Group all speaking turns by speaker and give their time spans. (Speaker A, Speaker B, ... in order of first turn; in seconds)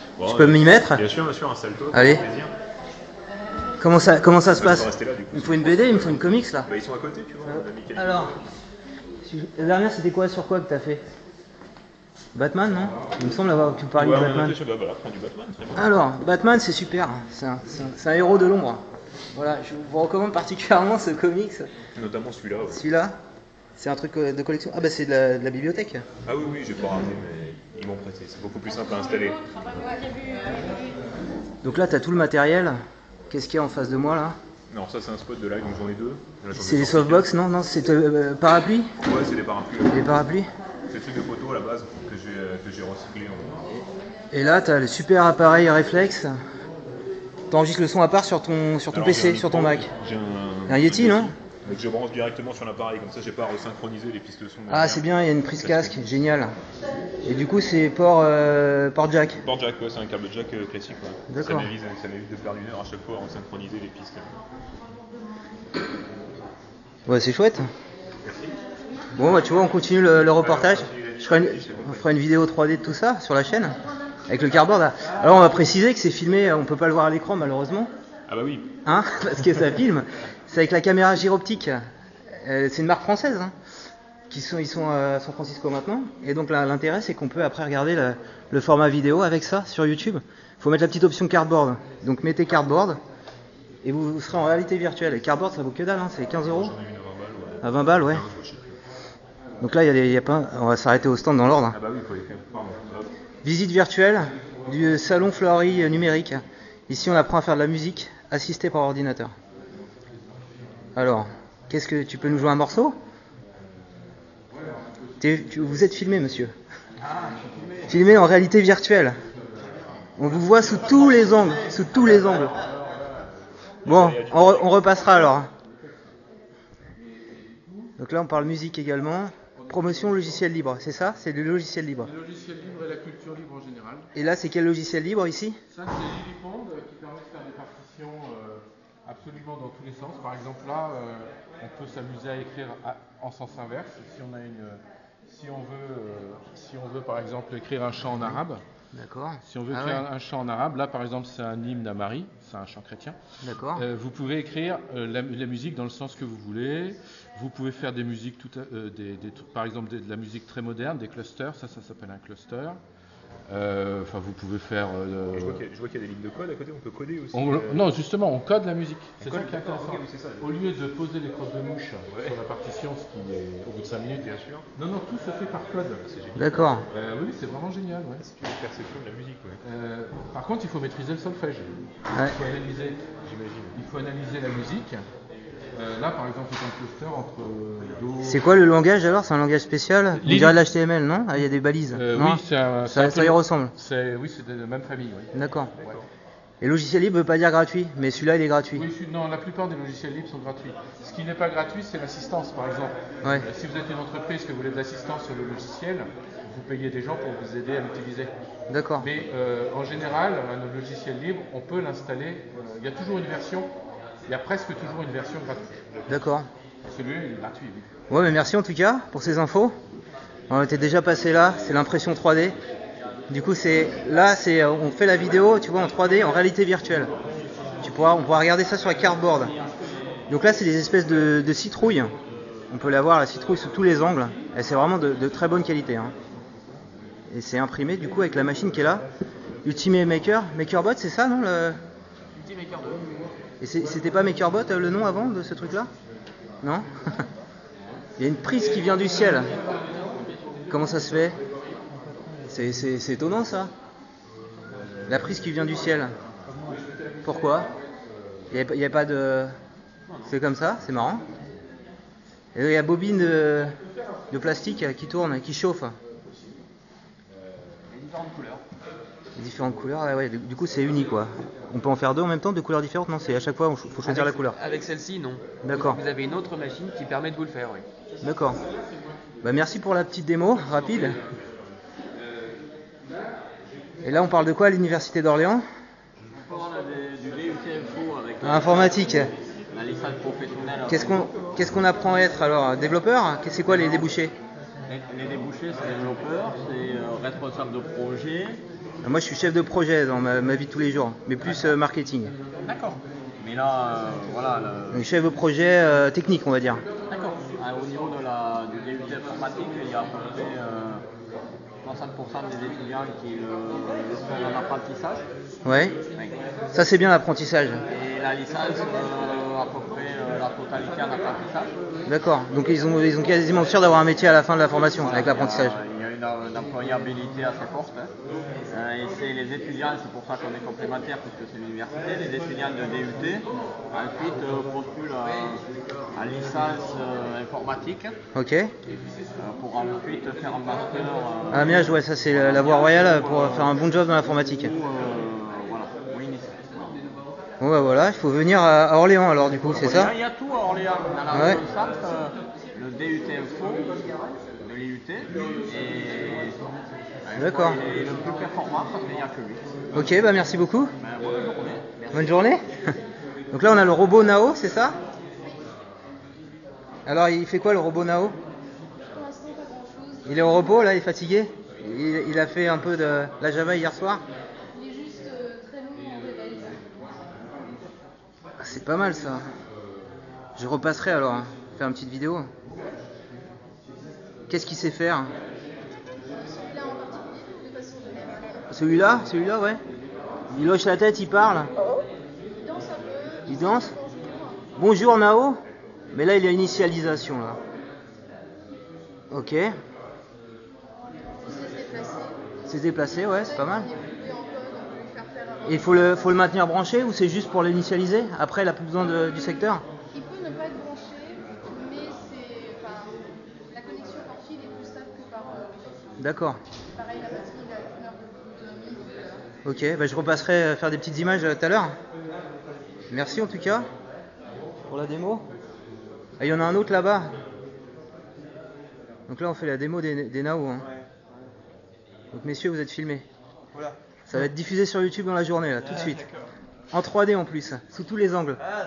Speaker A: 0.2-2.5, 4.5-8.4, 13.9-15.9, 22.0-22.8, 26.3-29.6, 34.7-37.3, 39.0-40.2, 40.9-43.7, 48.9-56.1, 59.4-64.3, 68.2-68.5, 70.4-72.1, 78.3-78.7, 96.4-98.8, 101.7-103.1, 123.8-125.2, 165.3-167.9, 169.2-170.5, 172.1-172.4, 174.2-174.7, 176.0-176.7, 178.2-179.6, 183.2-183.8
Speaker B: 0.2-1.0, 1.9-2.2, 3.8-6.7, 7.5-8.3, 9.2-11.0, 12.3-14.6, 15.8-18.8, 19.3-21.7, 22.7-23.2, 23.8-26.0, 31.6-32.8, 33.3-34.4, 36.5-38.9, 39.9-40.5, 44.3-46.3, 47.5-49.9, 50.7-51.3, 54.7-56.5, 57.2-59.4, 61.3-61.7, 67.1-67.6, 69.2-77.9, 78.8-81.8, 82.4-83.5, 84.3-93.0, 93.8-96.8, 97.6-98.2, 99.6-101.8, 103.4-109.3, 111.0-113.0, 115.2-116.5, 117.9-119.2, 120.2-122.6, 123.8-125.5, 128.0-132.1, 134.2-135.6, 148.1-148.4, 148.9-150.0, 153.4-153.9, 176.3-176.8, 188.2-193.7, 195.3-195.7, 196.6-198.9, 208.7-209.1, 216.1-216.5, 218.1-219.7, 220.5-222.6, 223.3-227.1, 227.8-229.5, 230.3-232.1, 232.7-236.1, 237.3-239.0, 239.7-241.8, 243.6-245.9, 248.2-249.5, 250.7-251.4, 252.5-253.7, 255.1-256.1, 257.2-257.7, 258.5-259.5, 260.3-261.2, 262.5-263.7, 264.3-265.9, 269.4-274.6, 275.6-276.0, 278.2-278.6, 279.4-281.2, 284.0-285.6, 288.4-289.3, 290.9-294.3, 299.0-302.3, 304.9-306.8, 315.6-316.0, 316.7-317.8, 322.1-325.8, 338.4-338.7, 341.5-344.7, 347.6-350.1, 351.3-351.6, 357.4-357.8, 359.9-360.9, 362.1-362.6, 363.5-365.0, 367.1-368.4, 370.3-374.2, 378.6-379.4, 380.6-382.5, 384.5-385.3, 388.7-389.8, 390.5-391.7, 393.5-393.9, 394.8-395.6, 396.1-397.6, 399.3-399.7, 402.7-403.9, 405.7-409.8, 416.2-416.6, 419.6-421.9, 423.1-423.9, 424.9-425.4, 426.4-427.3, 429.3-430.9, 432.3-433.2, 434.3-436.3, 436.9-438.6
Speaker C: 30.1-30.5, 369.1-370.8, 374.7-376.8, 386.3-388.9, 392.6-394.7, 401.4-402.4, 403.0-406.0, 410.1-413.1, 413.7-416.0, 416.9-419.4
Speaker D: 114.7-114.9, 122.5-123.2, 129.6-130.4, 132.0-134.1, 135.7-148.6, 149.4-153.2, 153.8-162.8, 163.5-165.6, 167.3-176.0, 176.9-178.2, 179.6-183.1, 183.7-185.0, 185.7-188.5, 190.2-190.6, 191.9-195.3, 198.8-208.3, 209.0-213.7, 214.3-216.2, 216.8-217.9, 280.7-281.1
Speaker E: 117.0-118.0, 229.2-229.7, 286.3-291.3, 293.7-294.1, 294.9-298.6, 301.4-301.7, 302.6-305.1, 307.1-311.0, 311.8-315.2, 317.9-321.7, 325.0-328.1, 328.7-338.2, 339.4-347.0, 349.6-354.0, 354.6-356.6, 357.2-359.6, 361.0-362.4
Speaker F: 274.1-277.9